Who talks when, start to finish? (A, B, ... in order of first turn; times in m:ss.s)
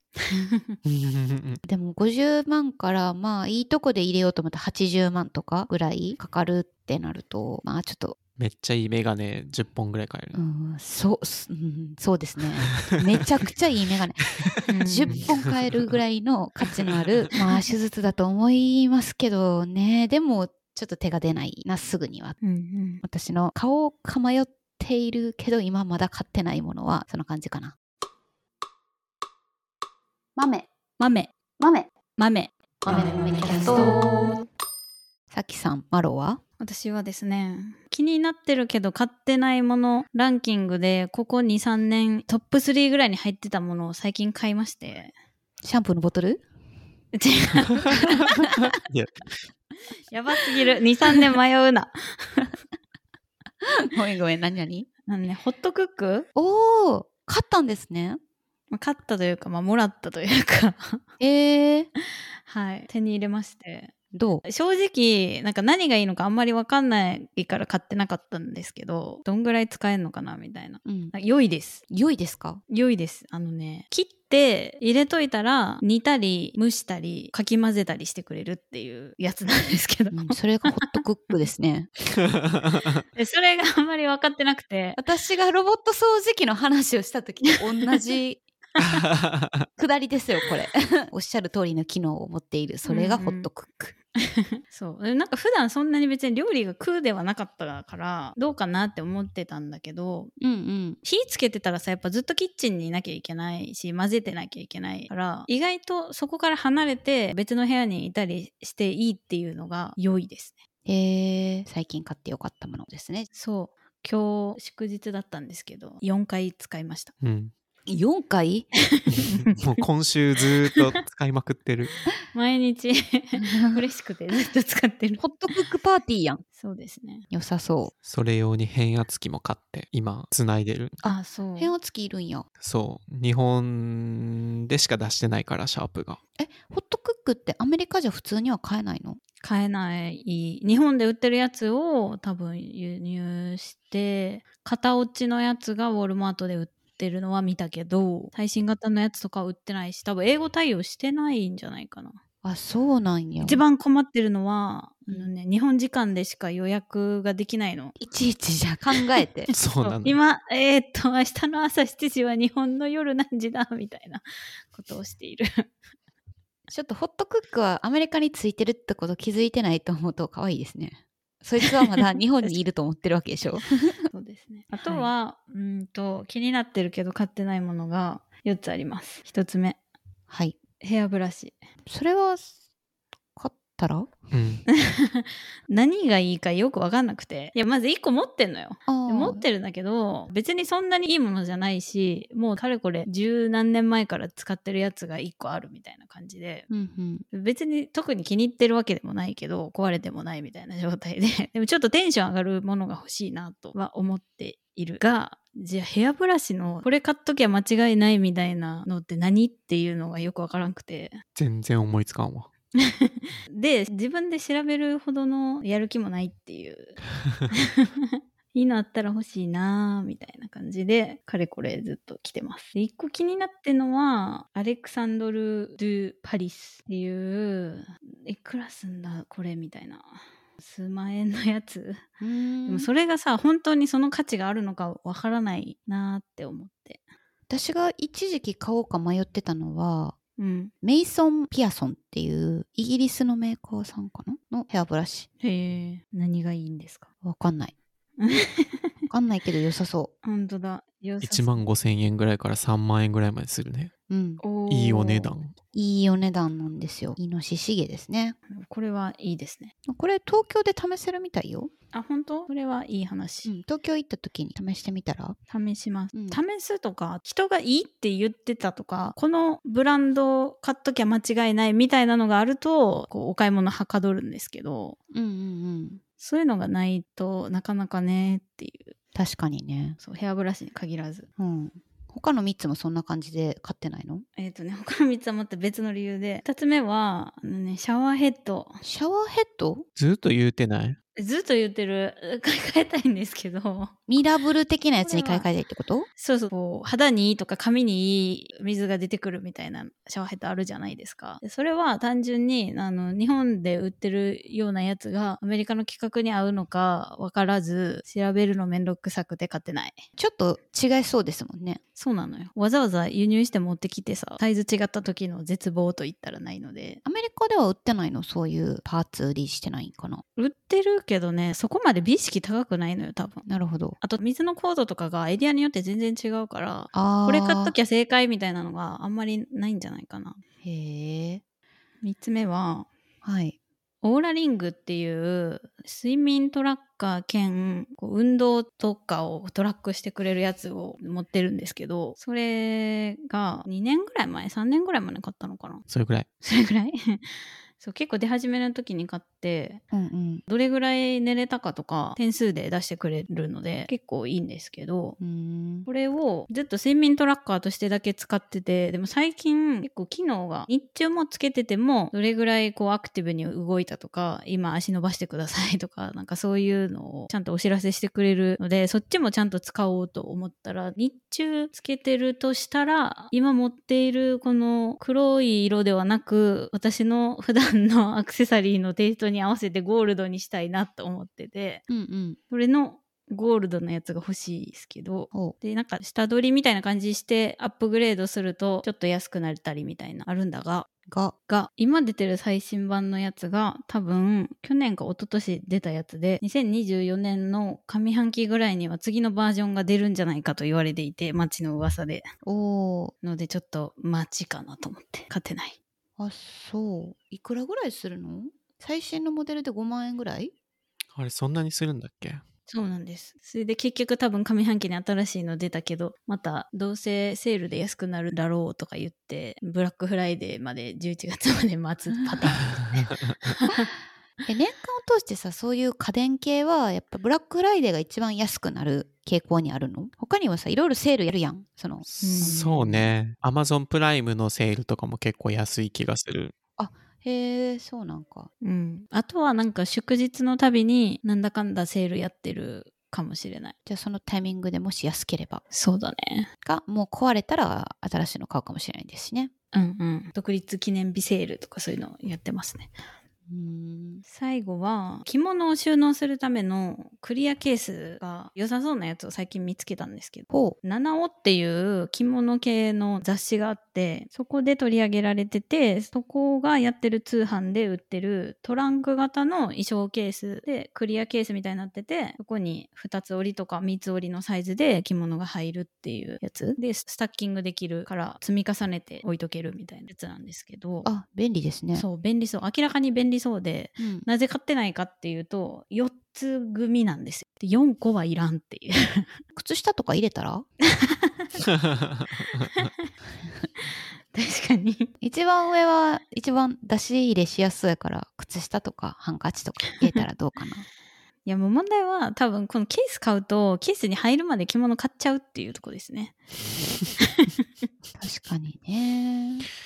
0:00.4-0:00.8 A
0:00.8-0:01.6 B
0:01.6-0:08.2 C
0:08.4-0:10.4 B
0:10.3-0:22.4 C
0:12.6-0:13.3 B
0:14.7-0:15.2 A
0:15.1-0:15.9 B
0:22.4-0:23.0 A
0:23.0-0:27.8 C
0:30.4-0:30.7 C
0:31.0-0:31.3 A
0:31.6-0:31.9 C
0:32.2-0:34.4 A
0:32.8-0:34.0 C
0:35.3-0:36.4 C
0:36.6-0:45.1 A
0:45.6-0:46.4 C
0:47.1-0:48.2 A
0:47.9-0:49.1 B
0:50.1-0:52.5 A
0:53.7-0:54.9 C
0:55.1-0:56.3 A
0:56.4-0:58.2 C
0:58.7-1:01.0 A
1:01.2-1:01.9 C
1:02.5-1:03.9 A
1:04.1-1:04.4 C
1:04.4-1:11.8 A
1:10.8-1:11.1 C
1:11.9-1:12.6 C
1:12.7-1:21.0 A
1:20.1-1:21.9 C
1:22.5-1:23.0 B
1:23.2-1:25.0 A
1:25.0-1:28.4 C
1:28.8-1:29.7 B
1:29.8-1:34.0 C
1:32.8-1:33.5 A
1:34.2-1:40.3 A
1:40.4-1:41.0 C
1:41.0-1:50.6 A
1:50.9-1:53.3 C
1:53.3-1:57.1 A
1:57.2-1:57.5 B
1:57.9-1:58.7 C
1:59.0-1:59.8 A
1:59.1-2:02.0 B
2:02.3-2:05.2 A
2:03.4-2:03.8 C
2:05.2-2:06.4 C
2:06.6-2:07.3 A
2:07.3-2:07.9 C
2:08.0-2:11.0 B
2:11.0-2:12.5 C
2:11.0-2:11.7 A
2:12.6-2:16.2 B
2:16.4-2:19.2 C
2:19.4-2:32.2 A
2:32.4-2:33.6 C
2:33.4-2:38.0 A
2:38.0-2:39.5 C
2:39.2-2:45.7 A
2:39.5-2:40.2 B
2:46.7-2:54.0 C
2:54.1-2:59.8 A
2:54.8-2:55.1 C
3:00.3-3:00.6 C
3:00.8-3:01.6 A
3:01.9-3:02.5 C
3:03.4-3:04.1 C
3:04.3-3:04.6 B
3:04.7-3:16.7 A
3:08.9-3:09.4 C
3:16.7-3:17.2 C
3:17.3-3:31.2 A
3:31.4-3:32.5 B
3:32.8-3:37.0 A
3:37.5-3:52.0 A
3:52.2-3:52.9 C
3:52.7-3:57.0 A
3:57.5-4:00.2 C
4:00.4-4:00.7 A
4:00.8-4:05.3 C
4:05.4-4:07.1 A
4:07.2-4:07.7 C
4:08.2-4:09.0 A
4:09.1-4:10.1 C
4:10.2-4:11.6 A
4:11.2-4:13.9 B
4:14.1-4:14.4 C
4:14.4-4:15.3 A
4:14.7-4:15.6 B
4:15.7-4:18.4 C
4:18.5-4:19.7 A
4:19.9-4:21.7 C
4:21.9-4:23.5 A
4:23.4-4:25.4 C
4:25.5-4:35.0 A
4:26.1-4:26.4 C
4:35.1-4:36.0 C
4:36.2-4:38.9 A
4:39.2-4:40.0 C
4:40.0-4:41.3 A
4:41.4-4:44.2 C
4:44.4-4:48.8 A
4:48.8-4:49.8 C
4:50.0-4:51.0 B
4:51.2-4:53.9 A
4:54.1-4:56.1 C
4:55.0-4:55.5 A
4:56.2-5:10.0 A
5:10.2-5:11.8 C
5:12.0-5:17.0 A
5:17.0-5:20.2 C
5:20.4-5:23.5 A
5:23.5-5:24.0 C
5:24.0-5:30.4 A
5:26.9-5:27.7 C
5:30.6-5:31.4 C
5:32.0-5:32.9 A
5:33.2-5:33.6 C
5:34.0-5:45.8 A
5:45.9-5:46.3 B
5:46.4-5:47.2 A
5:47.8-5:49.8 A
5:49.9-5:50.4 C
5:50.5-5:55.2 A
5:55.2-5:55.9 C
5:55.9-6:21.8 A
6:21.9-6:22.4 C
6:22.5-6:30.9 A
6:31.1-6:31.3 C
6:31.5-6:42.3 A
6:42.4-6:43.1 C
6:43.2-6:45.8 A
6:46.2-6:50.5 C
6:51.1-6:52.4 B
6:52.7-7:03.9 A
7:02.7-7:03.3 B
7:04.5-7:12.6 C
7:12.0-7:16.5 B
7:12.2-7:13.1 A
7:16.8-7:18.5 C
7:18.6-7:23.7 A
7:23.9-7:25.6 C
7:25.7-7:26.5 A
7:26.6-7:29.5 C
7:29.7-7:32.9 A
7:33.5-7:34.2 C
7:34.3-8:01.1 A
7:40.5-7:40.8 C
8:01.0-8:02.0 C
8:01.9-8:09.4 A
8:04.0-8:04.3 C
8:09.6-8:10.7 C
8:10.9-8:11.5 A
8:11.7-8:12.7 B
8:12.6-8:13.0 A
8:14.3-8:15.1 A
8:15.2-8:20.9 C
8:21.5-8:26.4 A
8:27.2-8:27.5 A
8:28.2-8:29.6 C